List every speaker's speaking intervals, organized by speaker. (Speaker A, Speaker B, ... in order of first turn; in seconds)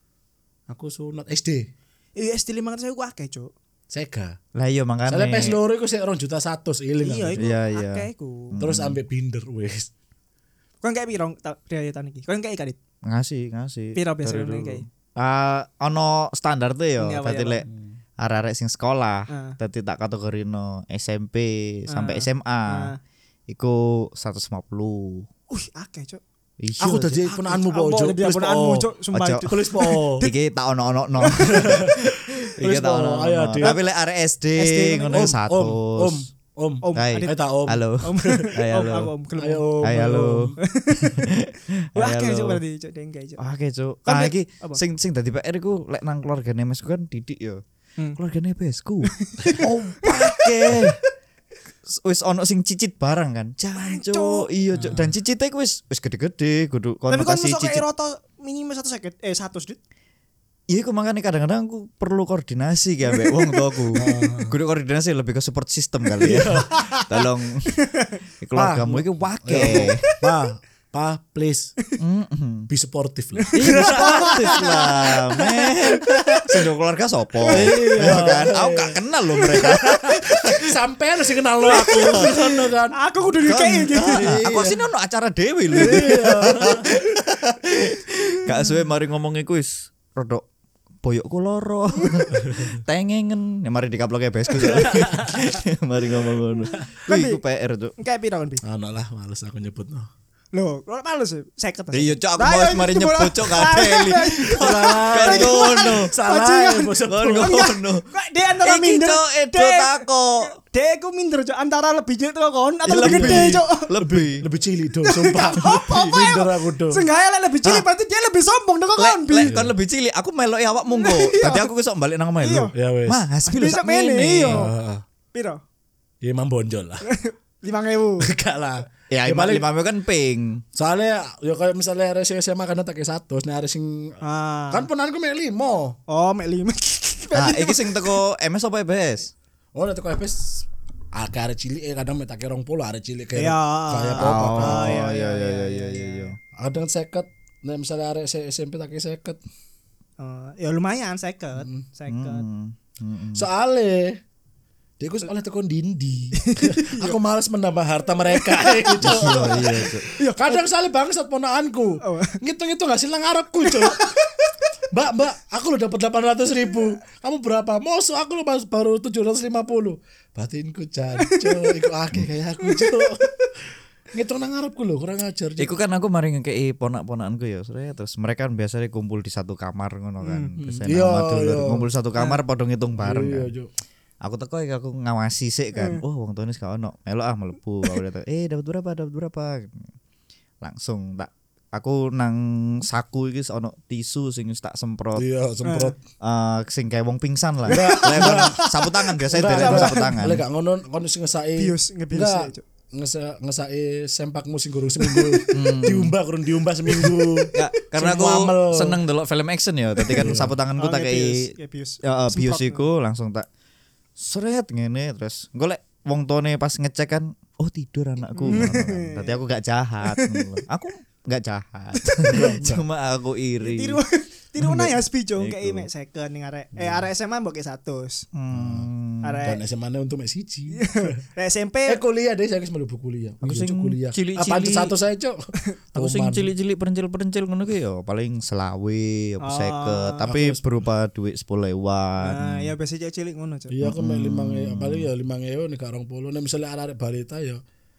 Speaker A: 0.7-1.7, 3.9-4.4, 5.1-7.5, 8.6-9.9, 26.8-28.9, 29.4-30.3, 31.4-33.8, 35.1-38.5, 39.4-40.6, 54.7-55.1, 63.9-64.5, 66.2-67.0, 68.5-71.7, 72.7-74.8, 75.8-76.6, 77.5-79.0, 79.6-83.0, 84.0-84.8, 85.7-87.1, 92.4-92.7, 94.5-95.5, 96.3-96.9, 98.6-100.1, 104.5-107.6, 113.0-117.0, 119.4-119.8, 122.7-123.2, 124.5-125.0, 126.2-127.0, 128.2-129.7, 130.7-136.0, 139.7-145.1, 146.6-149.4, 151.6-151.8, 153.3-154.2, 155.0-164.1, 164.9-173.3, 174.1-175.7, 180.6-181.9, 183.0-183.7, 195.2-196.0, 197.7-198.6, 199.3-209.0, 210.1-210.6, 222.3-222.8, 226.8-227.0, 228.5-228.9, 229.4-231.2, 231.9-235.4, 235.9-236.5, 240.2-240.6, 243.7-247.6
Speaker B: 2.1-3.5, 7.0-8.6, 10.8-12.8, 13.9-14.8, 17.0-17.7, 19.3-19.6, 21.9-23.0, 25.5-26.2, 27.2-30.3, 31.2-31.7, 34.5-35.3, 36.8-37.4, 38.0-39.8, 40.6-41.3, 41.9-43.4, 44.0-44.8, 49.1-51.0, 53.7-54.5, 57.1-59.8, 63.1-64.3, 66.4-67.1, 67.7-68.2, 69.6-70.2, 73.4-75.4, 77.4-78.2, 79.3-79.8, 81.7-84.4, 85.8-86.3, 88.4-88.7, 92.0-92.3, 97.1-97.4, 98.0-98.6, 100.5-113.9, 115.0-119.5, 120.9-121.7, 122.4-122.7, 123.5-124.7, 125.3-125.6, 127.0-128.3, 134.2-134.9, 136.1-138.2, 143.3-146.3, 150.2-152.4, 156.4-157.2, 158.3-160.6, 162.0-162.4, 163.6-164.5, 171.2-171.7, 172.6-173.5, 180.2-180.5, 182.2-182.4, 185.7-186.0, 195.6-195.9, 197.7-200.2, 201.6-202.6, 205.0-205.5, 206.9-207.5, 210.0-212.8, 218.3-219.4, 220.1-220.5, 222.0-222.5, 223.6-228.2, 229.2-229.6, 230.7-232.0, 239.4-240.3, 242.2-243.8
Speaker C: 4.5-5.6, 7.4-9.0, 13.1-17.6, 18.2-22.9, 23.5-25.3, 26.6-27.2, 29.1-36.2, 36.9-39.1, 39.8-42.6, 43.4-47.6, 48.2-51.0, 51.9-57.8, 60.7-67.8, 68.4-70.0, 72.0-72.7, 73.5-80.7, 81.7-82.3, 83.4-90.4, 91.0-97.9, 101.9-106.1, 107.1-110.5, 112.8-114.4, 119.0-124.7, 129.1-130.6, 137.3-139.3, 144.2-146.3, 152.1-153.4, 159.0-160.1, 175.6-183.5, 184.2-189.9, 190.6-195.2, 196.2-200.4, 205.5-206.1, 207.5-211.5, 212.0-213.4, 214.2-224.0, 224.6-225.9, 228.3-229.4, 233.4-234.9, 235.9-242.7, 243.8-245.1